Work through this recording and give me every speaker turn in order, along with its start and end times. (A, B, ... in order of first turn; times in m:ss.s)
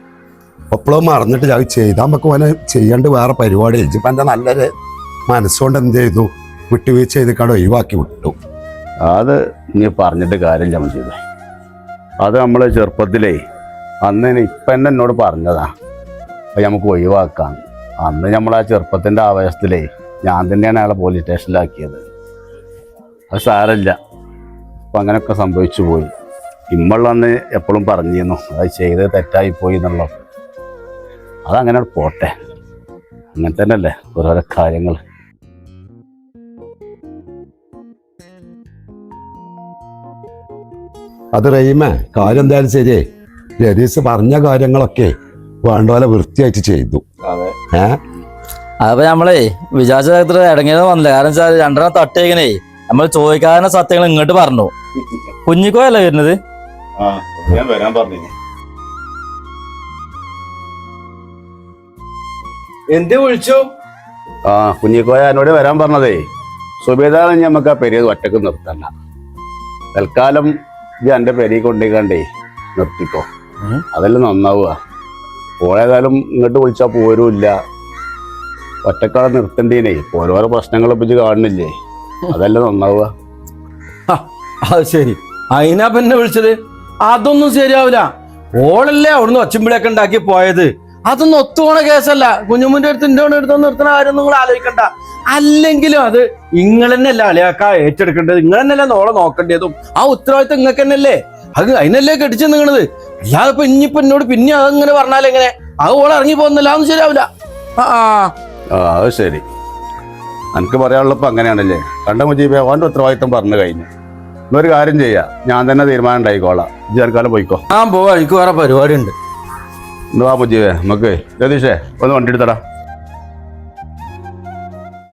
0:00.7-0:04.7 A
0:05.3-0:08.3 A
0:09.1-0:11.2 B
0:12.2-0:13.4 B
0:14.0-0:15.7 B
0:16.6-0:22.0 B
0:23.3-0:23.9 B
0:24.9-0:26.1 B
0:26.7-0:30.2 B
0:31.5-0:32.3 B
0:33.3-0:35.0 B
0:41.3-0:43.0 A
0:43.6-0:45.1 A
0:45.6-0:47.0 A
0:48.8-0:54.7 C
0:55.4-0:56.4 C
0:57.0-0:58.3 B
1:02.9-1:03.7 D
1:04.5-1:06.2 B
1:06.8-1:08.9 B
1:10.0-1:10.5 B
1:11.1-1:12.2 B
1:12.8-1:13.2 B
1:13.9-1:14.8 B
1:15.6-1:17.5 B
1:18.8-1:21.7 B
1:22.3-1:23.1 B
1:24.1-1:48.3 D
1:48.8-1:49.4 B
1:50.5-1:53.9 B
1:54.5-1:57.6 B
1:57.7-1:59.1 D
2:00.1-2:02.6 B